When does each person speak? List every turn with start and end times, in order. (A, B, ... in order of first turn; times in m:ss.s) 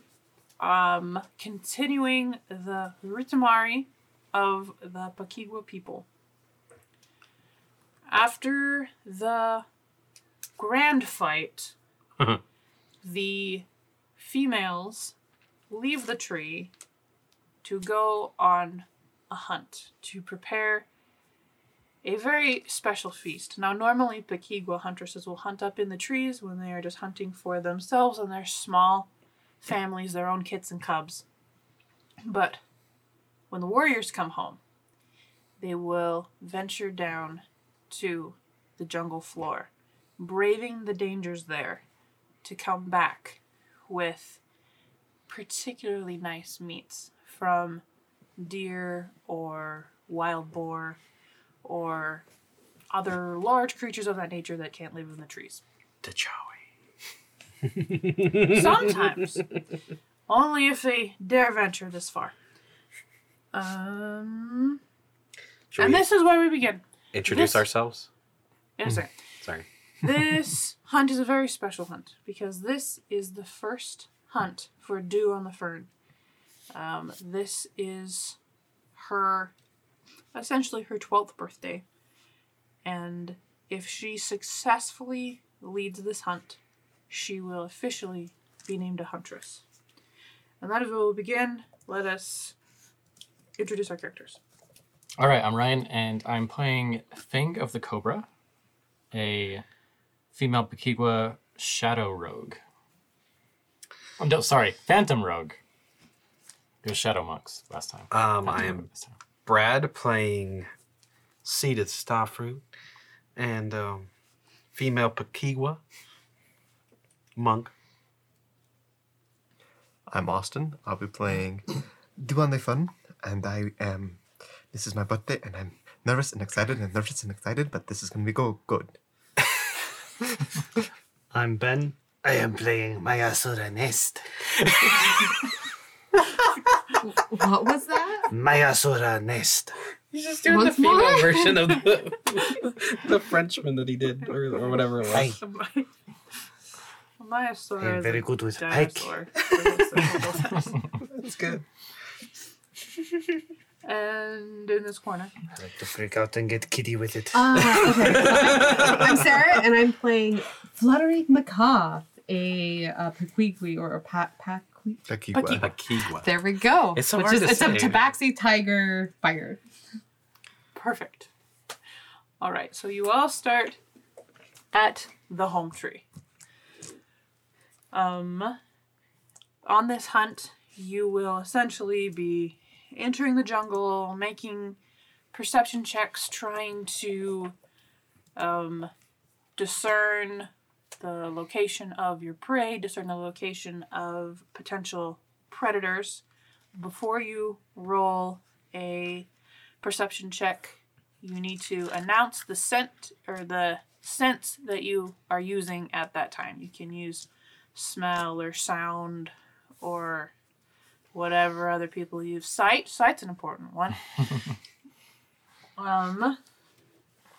0:00.6-0:06.0 A
0:08.1-0:09.6 A
0:10.6-0:11.7 A
0:13.0-0:13.7 A
0:14.2-0:15.1 A
0:15.7-0:16.7 A
0:17.6-0:20.8 A
0:22.0-0:29.1 A
0:29.6-0:31.2 A
0:32.2-0:32.6 A
0:33.5-0:34.6 A
0:35.6-0:41.8 A
0:42.4-0:44.4 A
0:45.3-0:47.8 A
0:48.4-0:51.0 A
0:51.6-0:52.2 A
0:52.9-0:55.6 A
0:56.0-0:56.6 B
0:57.7-0:58.7 B
0:58.4-0:59.4 A
1:00.3-1:02.3 A
1:03.5-1:04.8 A
1:05.7-1:06.0 B
1:05.8-1:07.6 A
1:07.1-1:08.1 B
1:08.8-1:09.1 A
1:10.0-1:15.9 A
1:16.7-1:18.4 A
1:18.9-1:19.5 A
1:20.3-1:21.8 A
1:22.8-1:26.6 A
1:27.1-1:29.6 A
1:30.6-1:32.6 A
1:33.6-1:34.4 A
1:35.2-1:38.3 C
1:39.1-1:39.6 C
1:40.3-1:42.6 C
1:44.2-1:45.6 C
1:46.8-1:49.1 C
1:48.1-1:48.8 B
1:49.4-1:50.7 B
1:51.4-1:52.6 B
1:53.4-1:54.1 B
1:54.7-1:55.8 B
1:57.4-1:57.7 B
2:00.1-2:09.0 D
2:11.3-2:15.3 E
2:17.0-2:18.3 F
2:18.3-2:19.7 E
2:20.1-2:21.4 A
2:20.3-2:25.4 B
2:20.5-2:21.6 F
2:24.6-2:25.9 A
2:25.1-2:25.4 E
2:27.2-2:30.8 A
2:27.8-2:29.1 E
2:31.1-2:31.6 B
2:33.8-2:35.3 A
2:35.5-2:38.1 E
2:37.3-2:45.1 F
2:38.0-2:39.1 B
2:45.1-2:45.7 D
2:45.3-2:45.7 A
2:45.5-2:48.1 B
2:46.2-2:49.6 F
2:50.7-2:51.3 A
2:52.4-2:53.8 A
2:54.7-2:56.0 A
2:57.9-2:58.6 A
2:59.6-3:04.8 A
3:05.3-3:07.5 A
3:08.4-3:08.9 A
3:09.6-3:16.2 A
3:16.7-3:19.3 A
3:19.8-3:30.3 A
3:31.1-3:34.0 A
3:35.8-3:36.4 A